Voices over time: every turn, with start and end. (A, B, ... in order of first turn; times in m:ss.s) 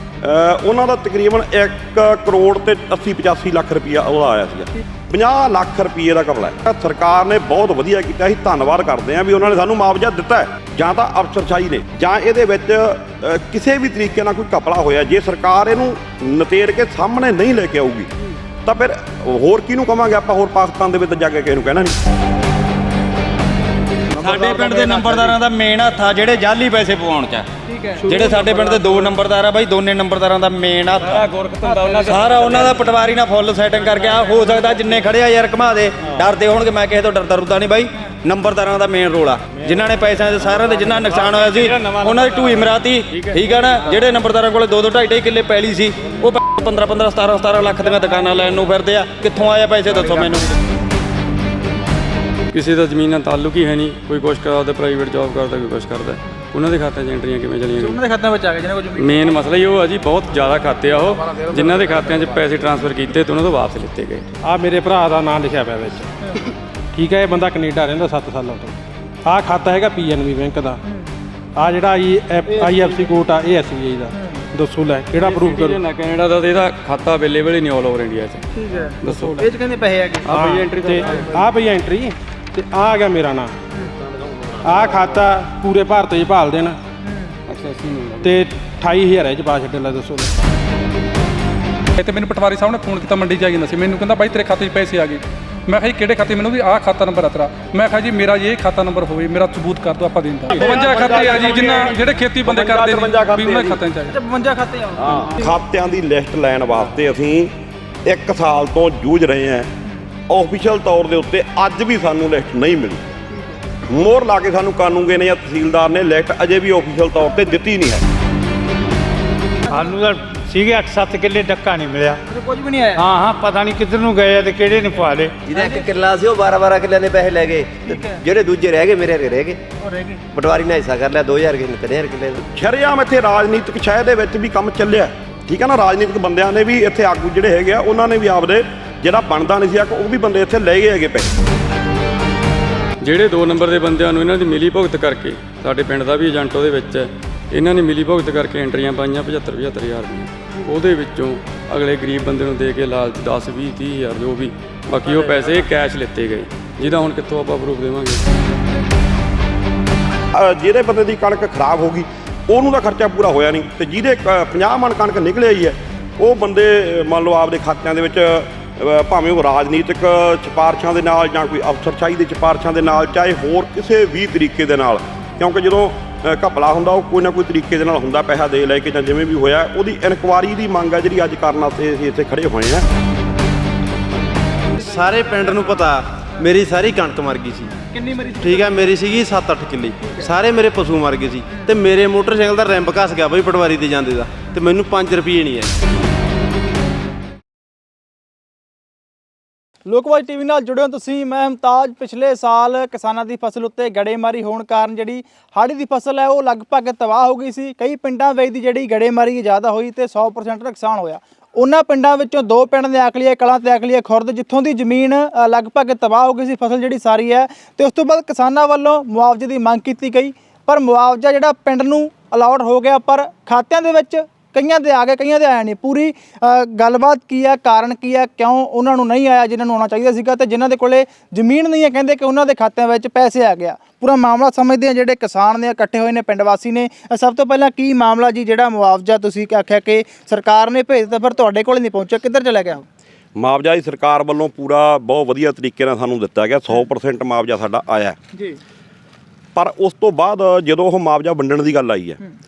0:00.2-0:18.1 A
0:18.6-0:21.9 A
0:24.2-0:27.5 B
0:27.7-0:28.6 C
0:28.0-0:31.3 B
0:31.6-0:32.2 C
0:32.0-0:50.5 B
0:52.5-0:58.0 D
0:57.8-0:59.4 C
0:59.0-1:04.3 D
1:04.4-1:06.1 E
1:06.9-1:08.7 E
1:09.3-1:10.8 E
1:11.6-1:15.8 E
1:12.6-1:13.1 C
1:14.1-1:14.4 C
1:15.2-1:18.5 D
1:18.5-1:20.6 C
1:19.0-1:19.5 D
1:19.1-1:19.5 E
1:20.3-1:21.3 D
1:20.3-1:23.5 E
1:24.6-1:26.8 E
1:27.0-1:27.4 C
1:27.5-1:28.4 D
1:28.2-1:30.3 E
1:32.0-1:44.2 F
1:40.6-1:43.8 A
1:40.7-1:41.8 C
1:44.1-1:45.5 C
1:45.0-1:47.5 A
1:48.0-1:49.7 A
1:50.3-1:53.0 A
1:53.3-1:53.6 C
1:53.9-1:58.0 A
1:59.7-2:00.0 C
1:59.7-2:02.2 G
2:02.3-2:03.1 C
2:03.0-2:05.3 G
2:05.5-2:09.6 H
2:07.9-2:08.2 C
2:09.8-2:10.2 C
2:10.3-2:12.4 H
2:12.5-2:21.3 A
2:23.0-2:38.2 D
2:40.3-3:02.9 A
3:04.8-3:07.7 I
3:07.8-3:08.9 C
3:08.4-3:15.7 I
3:10.0-3:10.3 C
3:19.8-4:02.8 C
4:03.4-4:08.2 A
4:08.3-4:08.6 C
4:09.5-4:12.2 A